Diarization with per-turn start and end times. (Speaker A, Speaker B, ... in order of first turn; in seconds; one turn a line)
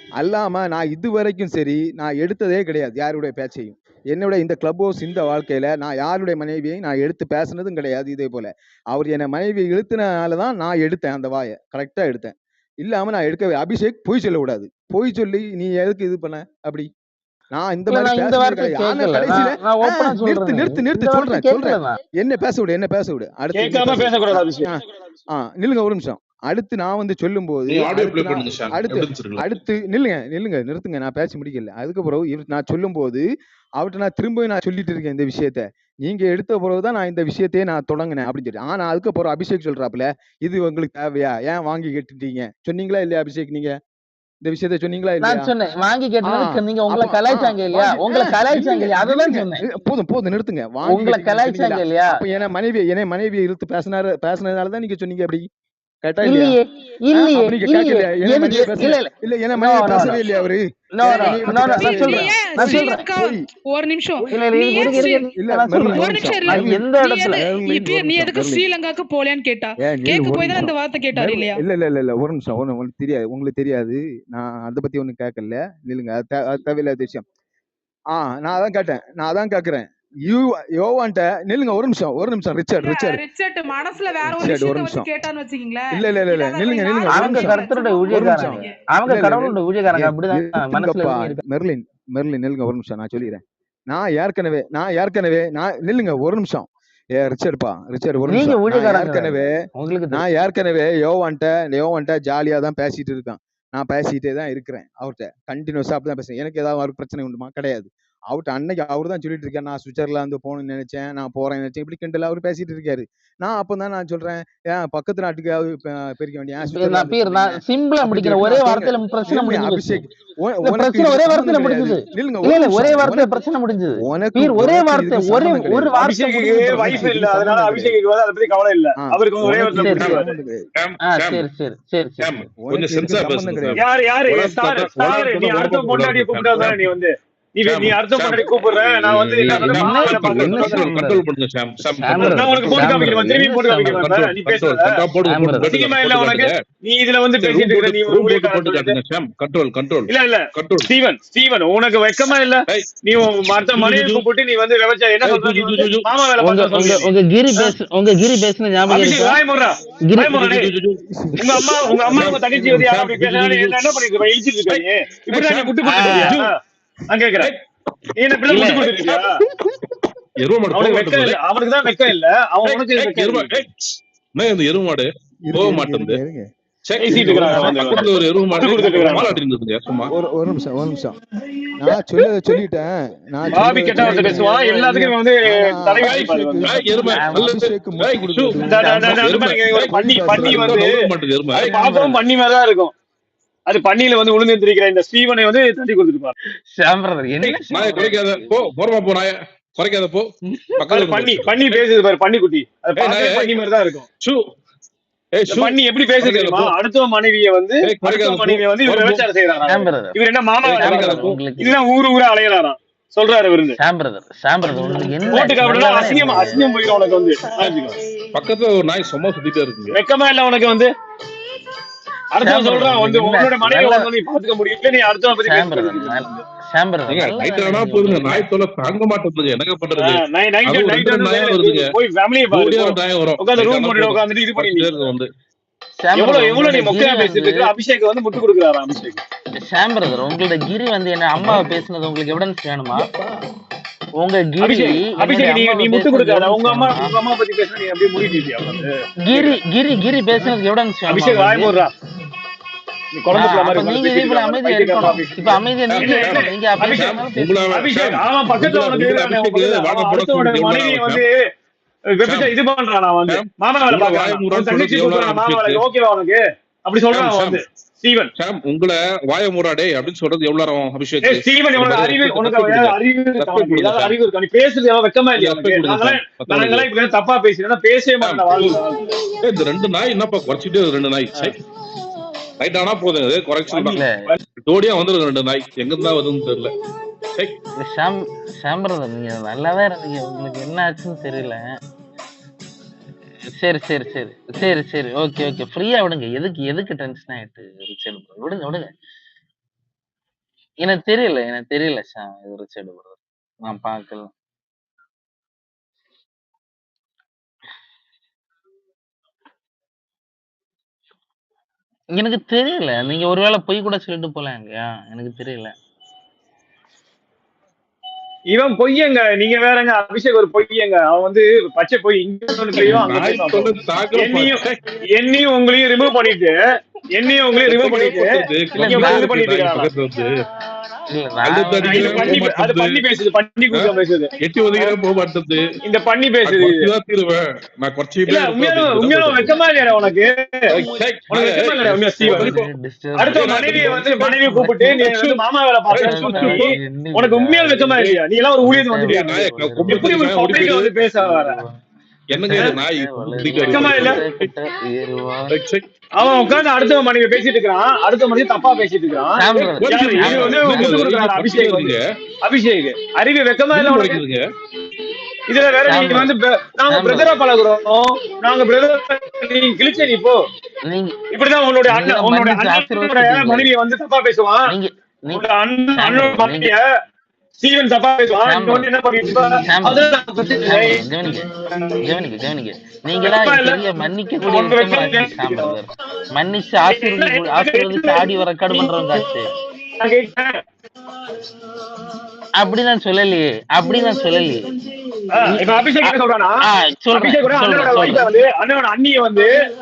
Speaker A: 0.2-16.9
Speaker A: 17.5-33.3
Speaker B: 17.9-22.0
Speaker C: 23.5-24.7
Speaker D: 27.7-29.4
Speaker A: 33.8-43.8
Speaker A: 44.4-45.5
Speaker B: 45.2-49.6
Speaker A: 46.2-55.5
Speaker B: 50.8-52.2
Speaker A: 56.0-56.5
Speaker B: 56.2-60.2
Speaker A: 57.1-63.4
Speaker B: 60.9-63.0
Speaker E: 61.1-71.6
Speaker B: 64.2-67.4
Speaker A: 64.3-68.7
Speaker A: 69.8-77.2
Speaker A: 78.1-83.2
Speaker E: 82.8-88.8
Speaker A: 84.2-85.1
Speaker A: 85.9-99.5
Speaker B: 87.1-91.4
Speaker B: 98.3-100.2
Speaker A: 100.1-123.4
Speaker B: 116.7-120.0
Speaker B: 120.6-127.0
Speaker A: 124.0-126.0
Speaker C: 126.0-130.3
Speaker A: 126.5-128.0
Speaker A: 129.0-130.6
Speaker B: 129.7-130.1
Speaker D: 130.8-131.4
Speaker B: 131.1-132.3
Speaker D: 132.2-136.9
Speaker A: 132.6-133.8
Speaker C: 133.8-140.9
Speaker D: 137.6-143.3
Speaker B: 139.3-141.2
Speaker B: 141.9-144.0
Speaker C: 142.2-144.9
Speaker D: 143.8-146.5
Speaker B: 145.2-145.7
Speaker C: 145.6-148.9
Speaker D: 147.4-150.9
Speaker C: 150.1-157.7
Speaker D: 152.7-154.2
Speaker D: 155.2-156.1
Speaker B: 156.4-159.4
Speaker C: 158.9-160.7
Speaker B: 160.0-160.4
Speaker D: 160.2-161.0
Speaker A: 161.1-162.4
Speaker C: 161.4-166.5
Speaker D: 161.8-164.0
Speaker D: 164.7-166.5
Speaker B: 165.8-166.3
Speaker C: 167.1-167.5
Speaker C: 168.2-169.3
Speaker B: 168.5-168.9
Speaker D: 170.4-171.4
Speaker C: 170.7-173.6
Speaker D: 172.6-176.2
Speaker A: 175.5-176.5
Speaker D: 176.8-180.1
Speaker C: 177.0-179.3
Speaker A: 177.1-177.7
Speaker A: 179.1-179.4
Speaker A: 180.1-181.2
Speaker A: 181.8-189.1
Speaker C: 183.5-186.7
Speaker B: 184.1-184.5
Speaker D: 186.6-191.7
Speaker B: 187.2-187.5
Speaker C: 188.6-190.9
Speaker A: 189.9-190.8
Speaker B: 191.5-192.2
Speaker C: 191.5-192.9
Speaker C: 193.7-196.3
Speaker B: 196.7-198.7
Speaker D: 197.4-201.8
Speaker C: 200.9-204.1
Speaker D: 202.9-203.5
Speaker D: 205.3-206.7
Speaker C: 205.5-213.8
Speaker D: 207.8-209.2
Speaker B: 209.7-210.1
Speaker D: 210.6-211.4
Speaker B: 210.7-211.8
Speaker B: 213.8-216.6
Speaker C: 215.3-218.0
Speaker D: 218.3-219.9
Speaker C: 219.9-220.9
Speaker C: 222.3-226.4
Speaker B: 222.4-224.1
Speaker B: 225.4-228.4
Speaker D: 227.1-231.8
Speaker C: 230.0-235.1
Speaker D: 232.5-235.3
Speaker B: 236.0-237.7
Speaker C: 236.1-239.2
Speaker B: 239.6-243.1
Speaker B: 244.2-247.1
Speaker C: 244.6-249.6
Speaker B: 249.2-251.7
Speaker C: 251.1-251.9
Speaker C: 253.1-257.1
Speaker B: 253.3-257.6
Speaker D: 255.9-261.2
Speaker C: 257.7-261.4
Speaker C: 262.1-268.3
Speaker D: 262.2-262.5
Speaker D: 263.3-265.8
Speaker D: 267.1-267.6
Speaker D: 268.4-274.1
Speaker C: 271.2-279.1
Speaker D: 275.4-276.9
Speaker D: 278.2-278.8
Speaker D: 279.4-281.6
Speaker D: 282.6-284.0
Speaker B: 283.7-284.1
Speaker D: 284.7-286.7
Speaker B: 287.8-291.6
Speaker B: 293.5-298.9
Speaker B: 300.8-304.3
Speaker B: 312.1-315.7
Speaker C: 318.5-324.6
Speaker D: 322.8-324.8
Speaker C: 325.1-326.6
Speaker C: 327.1-329.9
Speaker D: 327.6-330.3
Speaker B: 328.8-329.2
Speaker B: 331.1-332.4
Speaker D: 331.4-333.0
Speaker C: 331.8-334.9
Speaker D: 333.7-335.6
Speaker C: 335.8-336.9
Speaker D: 336.4-339.6
Speaker C: 338.3-340.7
Speaker D: 340.7-342.7
Speaker C: 341.3-342.5
Speaker B: 342.2-344.9
Speaker C: 343.2-349.3
Speaker D: 343.3-345.4
Speaker D: 345.9-346.7
Speaker B: 345.9-350.2
Speaker D: 349.1-350.9
Speaker C: 349.9-351.6
Speaker B: 351.1-351.8
Speaker D: 352.3-354.4
Speaker B: 352.4-355.5
Speaker C: 352.4-352.7
Speaker C: 353.6-354.2
Speaker D: 355.5-355.8
Speaker C: 356.1-364.2
Speaker B: 359.4-360.9
Speaker D: 359.8-362.0
Speaker D: 363.7-364.4
Speaker C: 365.5-370.4
Speaker B: 365.9-366.3
Speaker B: 366.9-367.3
Speaker B: 370.9-371.1
Speaker C: 371.3-374.7
Speaker B: 371.9-373.7
Speaker B: 374.7-375.4
Speaker C: 375.3-376.8
Speaker B: 375.9-376.7
Speaker C: 377.6-382.0
Speaker B: 378.4-378.9
Speaker B: 379.5-381.5
Speaker B: 382.0-389.5
Speaker C: 383.2-383.8
Speaker C: 384.4-385.8
Speaker C: 386.9-389.2
Speaker C: 389.9-390.6
Speaker B: 392.6-394.7
Speaker C: 395.3-399.5
Speaker B: 395.4-398.3